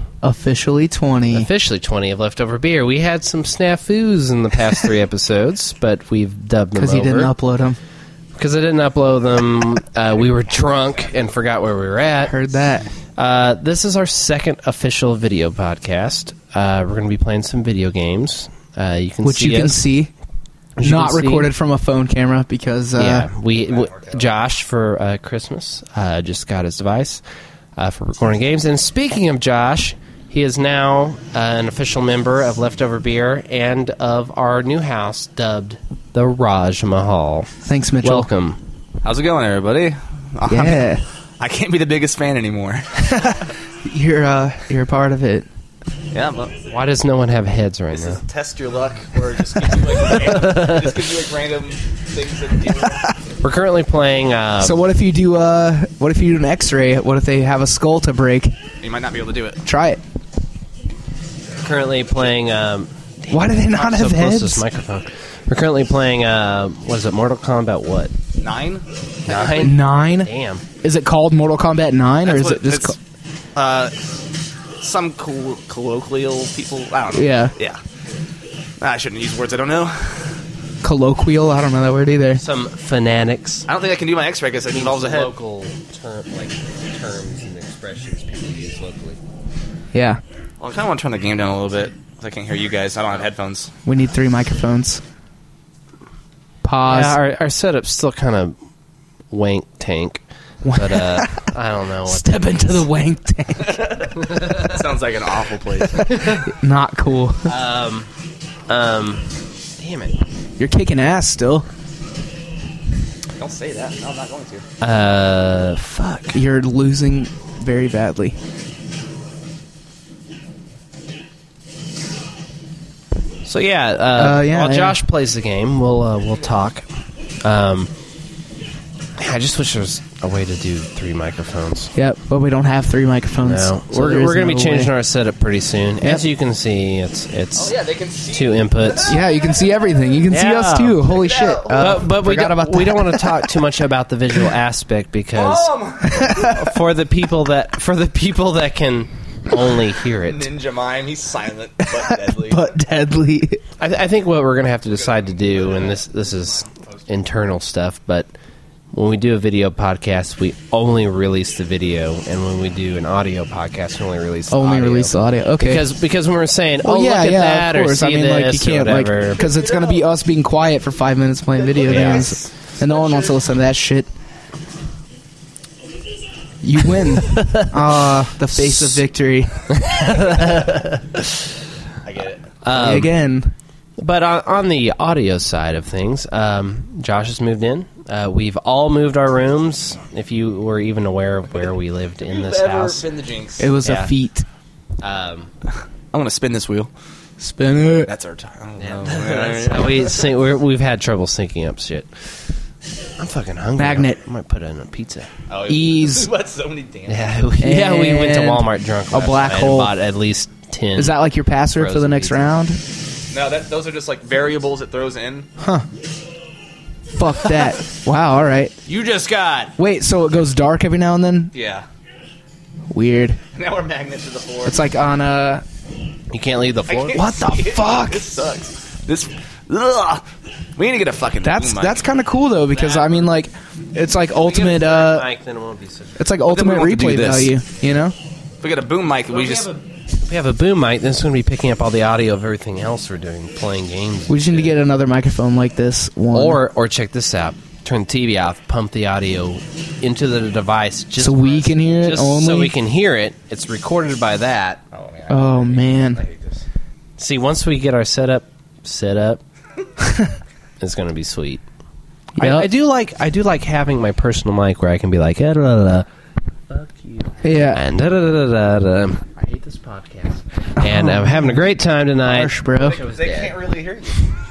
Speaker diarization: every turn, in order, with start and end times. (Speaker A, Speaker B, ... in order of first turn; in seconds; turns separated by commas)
Speaker A: 0.2-1.5, Speaker B: 1.3-7.3, Speaker A: 6.8-7.8, Speaker B: 8.4-12.3, Speaker A: 12.3-12.9, Speaker B: 13.2-19.8, Speaker A: 19.2-20.1, Speaker B: 20.8-21.5, Speaker A: 20.8-23.3, Speaker B: 23.0-27.2, Speaker C: 23.6-24.3, Speaker B: 27.8-37.5, Speaker A: 37.7-38.3, Speaker B: 38.0-38.6, Speaker C: 39.0-40.9, Speaker A: 40.5-41.0, Speaker C: 41.4-43.3, Speaker A: 43.0-45.5, Speaker C: 46.1-46.5, Speaker B: 46.7-48.2, Speaker C: 47.9-53.0, Speaker B: 50.2-50.9, Speaker B: 53.4-54.8, Speaker A: 54.6-58.5, Speaker C: 58.8-59.6, Speaker A: 59.6-60.0, Speaker B: 61.6-68.1, Speaker A: 63.3-64.6, Speaker C: 68.4-69.7, Speaker B: 69.3-70.6, Speaker A: 69.6-70.3, Speaker A: 70.8-73.0, Speaker C: 72.2-73.0, Speaker C: 73.5-73.9, Speaker C: 74.8-77.8, Speaker A: 77.1-77.5, Speaker C: 78.8-80.4, Speaker A: 80.8-82.4, Speaker B: 82.4-83.7, Speaker C: 83.7-85.3, Speaker B: 84.7-89.2, Speaker A: 89.9-90.2, Speaker C: 90.6-93.7, Speaker A: 93.8-95.0, Speaker A: 96.6-97.2, Speaker B: 96.8-98.6, Speaker B: 99.3-102.9, Speaker A: 100.7-101.4, Speaker A: 102.1-104.1, Speaker C: 104.2-106.3, Speaker A: 106.0-107.5, Speaker B: 107.5-108.1, Speaker B: 108.7-109.3, Speaker B: 109.8-110.1, Speaker A: 110.6-111.7, Speaker C: 113.4-114.7, Speaker B: 114.8-116.4, Speaker A: 116.3-118.4, Speaker B: 123.5-126.9, Speaker A: 124.2-125.0, Speaker B: 127.4-127.9, Speaker B: 129.2-131.9, Speaker A: 131.9-134.9, Speaker B: 133.4-137.8, Speaker C: 137.6-139.2, Speaker B: 138.3-139.2, Speaker A: 139.1-143.6, Speaker B: 140.3-141.0, Speaker C: 141.1-142.0, Speaker B: 141.7-145.7, Speaker C: 145.3-146.4, Speaker A: 146.1-146.6, Speaker B: 146.2-150.5, Speaker C: 150.2-152.7, Speaker A: 151.9-153.6, Speaker B: 153.8-158.3, Speaker C: 154.9-157.3, Speaker B: 158.9-169.4, Speaker A: 164.5-165.8, Speaker A: 166.8-174.1, Speaker C: 169.3-170.1, Speaker C: 171.7-173.3, Speaker B: 171.9-172.2, Speaker A: 176.6-179.7, Speaker B: 177.3-177.7, Speaker B: 179.8-181.3, Speaker C: 182.0-182.4, Speaker B: 182.6-183.1, Speaker A: 182.7-183.5, Speaker B: 184.0-193.0, Speaker C: 192.2-193.7, Speaker A: 193.6-194.5, Speaker B: 193.8-194.1, Speaker B: 195.0-195.5, Speaker C: 196.1-196.9, Speaker A: 197.4-198.1, Speaker C: 198.1-200.3, Speaker B: 198.8-202.1, Speaker B: 203.2-205.3, Speaker A: 203.8-204.2, Speaker C: 205.5-207.3, Speaker A: 205.7-206.3, Speaker B: 207.1-211.2, Speaker A: 207.6-209.9, Speaker A: 211.0-212.8, Speaker B: 211.7-212.5, Speaker C: 213.3-215.5, Speaker A: 215.6-215.8, Speaker A: 217.2-218.8, Speaker C: 218.9-219.7, Speaker A: 219.8-221.5, Speaker C: 221.5-221.9, Speaker A: 222.9-223.4, Speaker C: 223.5-224.8, Speaker A: 224.7-225.6, Speaker B: 226.3-227.2, Speaker C: 226.9-232.0, Speaker A: 227.1-228.2, Speaker A: 231.4-235.3, Speaker C: 232.7-233.2, Speaker B: 234.3-236.2, Speaker A: 236.2-238.2, Speaker C: 236.5-237.5, Speaker C: 238.6-239.7, Speaker B: 239.3-244.7, Speaker A: 244.3-246.6, Speaker B: 246.3-254.8, Speaker A: 251.2-252.7, Speaker C: 254.9-256.6, Speaker A: 255.3-256.2, Speaker B: 257.2-259.4, Speaker B: 260.8-261.6, Speaker A: 262.4-262.7, Speaker B: 262.4-266.1, Speaker B: 266.7-273.5, Speaker A: 267.4-267.8, Speaker A: 270.8-271.5, Speaker A: 272.2-273.0, Speaker C: 272.8-274.3